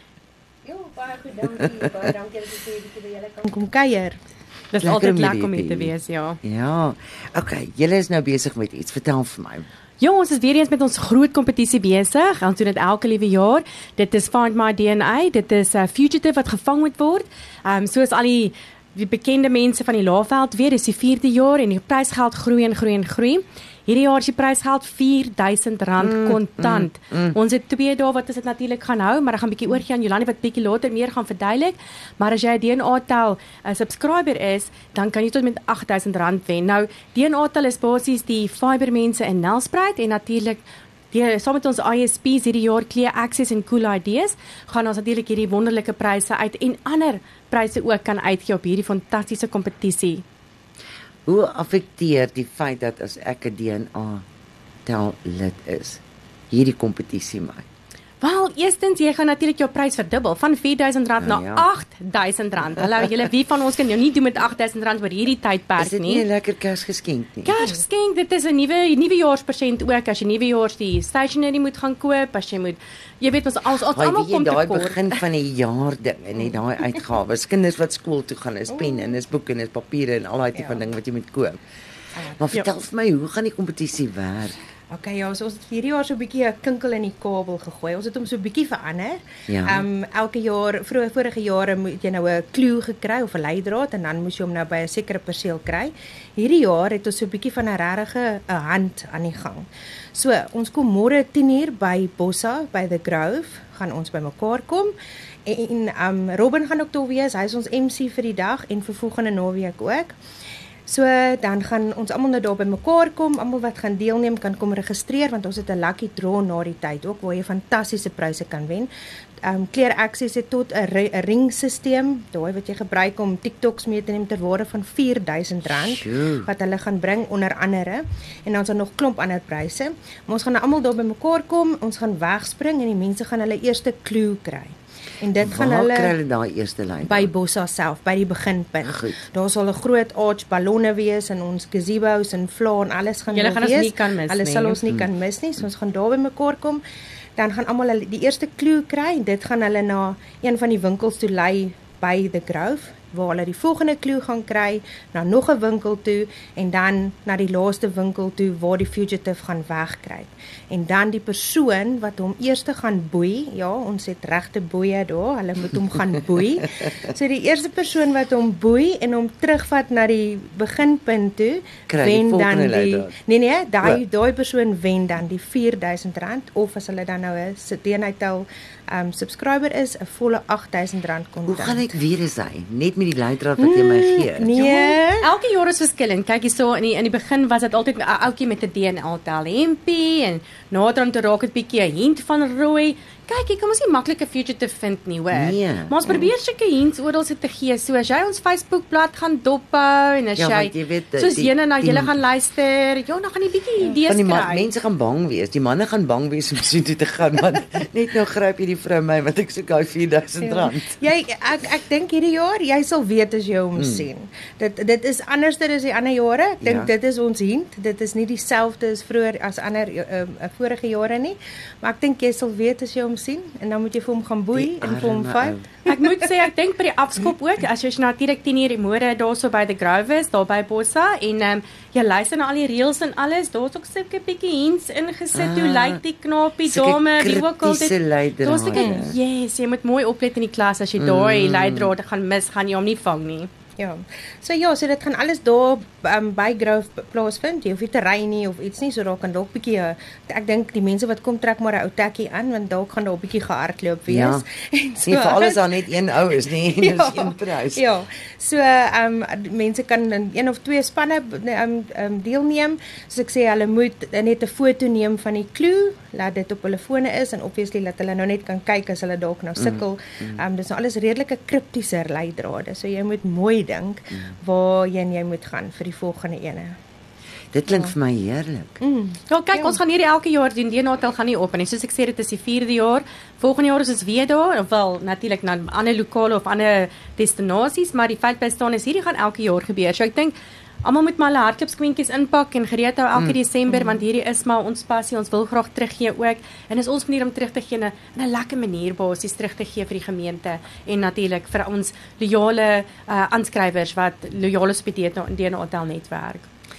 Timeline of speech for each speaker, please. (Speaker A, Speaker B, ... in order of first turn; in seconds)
Speaker A: 0.7-4.2, 67.6-67.8, 78.7-79.2, 80.5-80.8, 84.9-104.9, 105.5-110.2, 110.9-118.9, 119.4-136.2, 137.1-146.8, 147.4-181.9, 183.6-185.3, 210.4-226.3, 238.7-239.1, 243.8-255.8, 256.6-276.7, 278.8-279.8, 293.7-294.1
Speaker B: 4.7-6.4, 10.0-50.2, 58.2-66.2, 67.5-75.2, 143.3-144.8, 184.6-204.7, 225.9-243.5, 279.3-306.5
Speaker C: 4.8-9.7, 26.0-27.4, 51.3-54.2, 54.9-57.6, 61.2-61.7, 65.8-67.6, 73.9-81.6, 82.4-84.6, 89.5-89.8, 125.8-126.5, 135.4-137.3, 138.8-139.2, 171.9-173.1, 181.5-184.6, 195.3-196.2, 200.4-202.2, 204.1-211.0, 213.8-214.1, 216.6-216.9, 224.6-225.7, 235.3-236.0, 236.7-239.1, 241.0-241.9, 254.1-254.4, 255.0-257.8, 269.6-270.4, 277.5-278.8